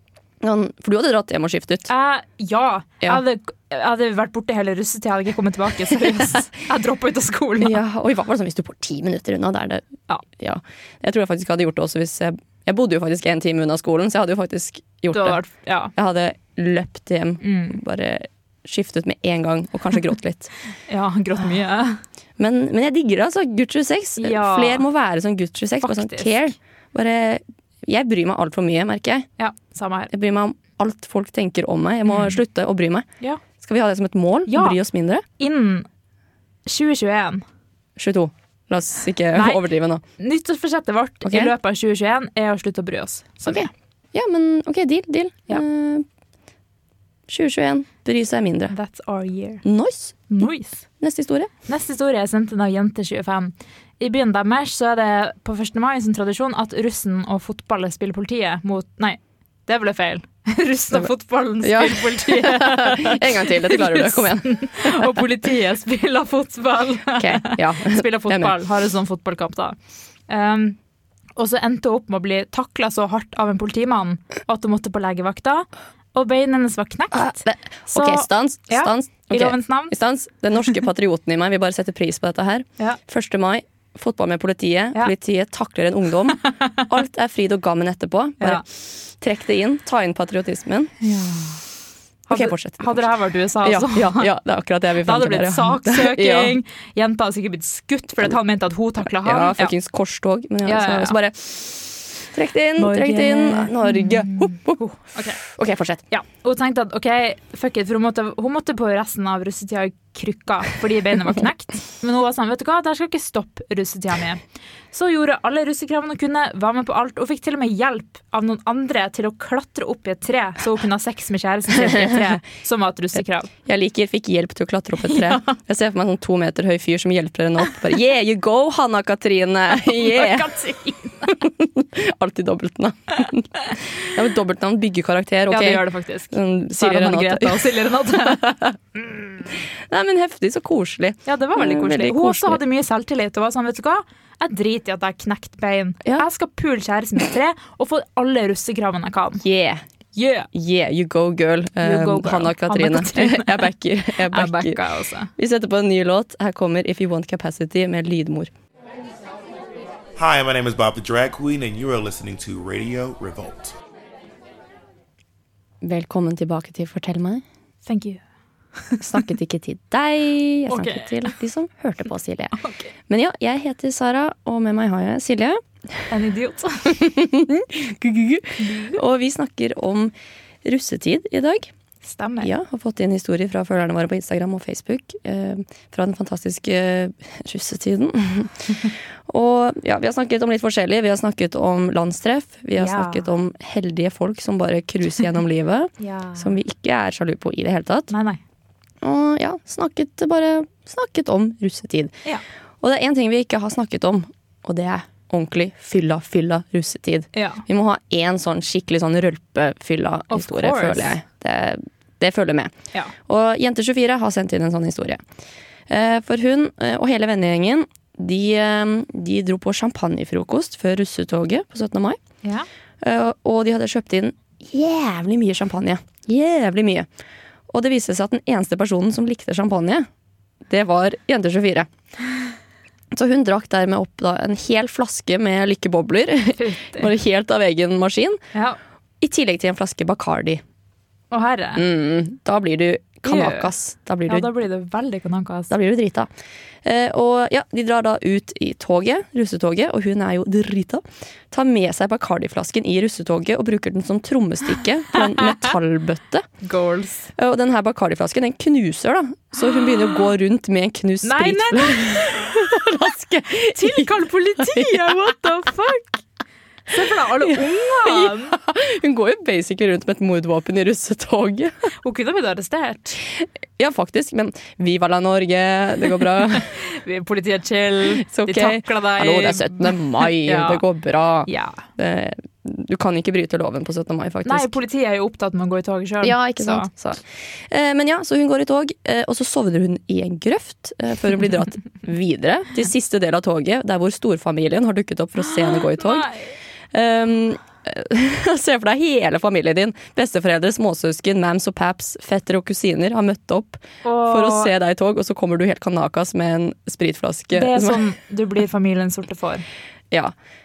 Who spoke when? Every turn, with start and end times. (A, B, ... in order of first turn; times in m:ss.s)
0:00.4-0:01.9 A
0:01.9-0:07.8 B
0:07.6-0:09.9 A
0:10.4-0:15.4 A
0:15.1-0:15.9 B
0:16.0-0:20.5 A
0:17.4-0:17.8 B
0:20.9-0:22.0 B
0:22.4-0:29.3 A
0:24.2-0:24.8 B
0:25.8-0:26.5 B
0:29.4-0:30.1 B
0:30.1-0:33.1 A
0:32.1-0:32.4 B
0:33.6-0:35.2 A
0:34.5-0:34.8 B
0:35.4-0:35.9 B
0:36.7-0:37.4 B
0:38.0-0:40.0 A
0:39.3-0:39.6 B
0:40.2-0:43.7 B
0:41.2-0:41.5 A
0:43.4-0:46.1 A
0:47.3-0:48.8 A
0:48.7-0:49.6 B
0:49.6-0:50.3 A
0:50.3-0:50.8 B
0:51.0-0:51.5 A
0:51.7-1:09.8 B
1:01.6-1:05.2 A
1:07.2-1:08.5 A
1:10.3-1:10.8 B
1:11.4-1:19.9 B
1:17.1-1:30.9 A
1:31.0-1:31.6 B
1:32.3-1:34.3 B
1:32.3-1:33.1 A
1:33.6-1:36.6 A
1:35.0-1:39.7 B
1:39.2-1:44.8 A
1:40.6-1:41.2 B
1:42.8-1:45.4 B
1:45.4-1:46.0 A
1:46.1-2:03.5 B
2:01.7-2:02.4 A
2:03.6-2:10.5 A
2:05.1-2:05.5 B
2:09.8-2:11.4 B
2:11.3-2:17.7 A
2:15.5-2:18.5 B
2:18.2-2:22.6 A
2:21.3-2:29.4 B
2:29.4-2:29.8 A
2:30.1-2:30.5 B
2:30.5-2:34.8 A
2:31.8-2:33.7 B
2:34.3-2:35.3 B
2:35.4-2:38.5 A
2:40.2-2:43.7 C
2:45.8-2:47.4 A
2:47.8-2:48.2 B
2:49.0-2:52.6 A
2:50.7-2:51.3 B
2:52.6-2:52.9 B
2:53.1-2:55.6 A
2:56.1-2:57.0 B
2:56.9-3:00.1 A
2:58.6-2:59.0 B
3:00.6-3:01.7 A
3:02.0-3:02.5 B
3:02.4-3:18.1 A
3:12.8-3:13.3 B
3:16.0-3:16.6 B
3:18.1-3:18.4 B
3:19.0-3:22.2 A
3:22.8-3:32.7 A
3:27.3-3:27.6 B
3:30.3-3:31.2 B
3:33.2-3:35.2 A
3:35.9-3:42.2 A
3:43.0-3:47.1 A
3:47.7-3:50.1 A
3:50.7-3:51.9 A
3:53.1-3:58.4 A
3:56.6-3:57.1 B
3:59.2-4:00.6 A
4:01.3-4:01.8 B
4:01.8-4:04.5 A
4:03.3-4:03.7 B
4:04.3-4:05.7 B
4:05.7-4:06.3 A
4:06.8-4:16.5 A
4:16.6-4:17.3 B
4:17.4-4:25.3 A
4:21.2-4:22.4 B
4:23.7-4:26.2 B
4:26.9-4:28.6 B
4:27.4-4:31.9 A
4:32.0-4:33.2 B
4:33.4-4:36.7 A
4:36.5-4:40.8 B
4:38.2-4:44.8 A
4:41.5-4:41.8 B
4:44.4-4:46.9 B
4:46.2-4:56.3 A
4:55.4-4:56.6 B
4:56.9-5:08.1 A
5:04.0-5:04.7 B
5:07.5-5:09.6 B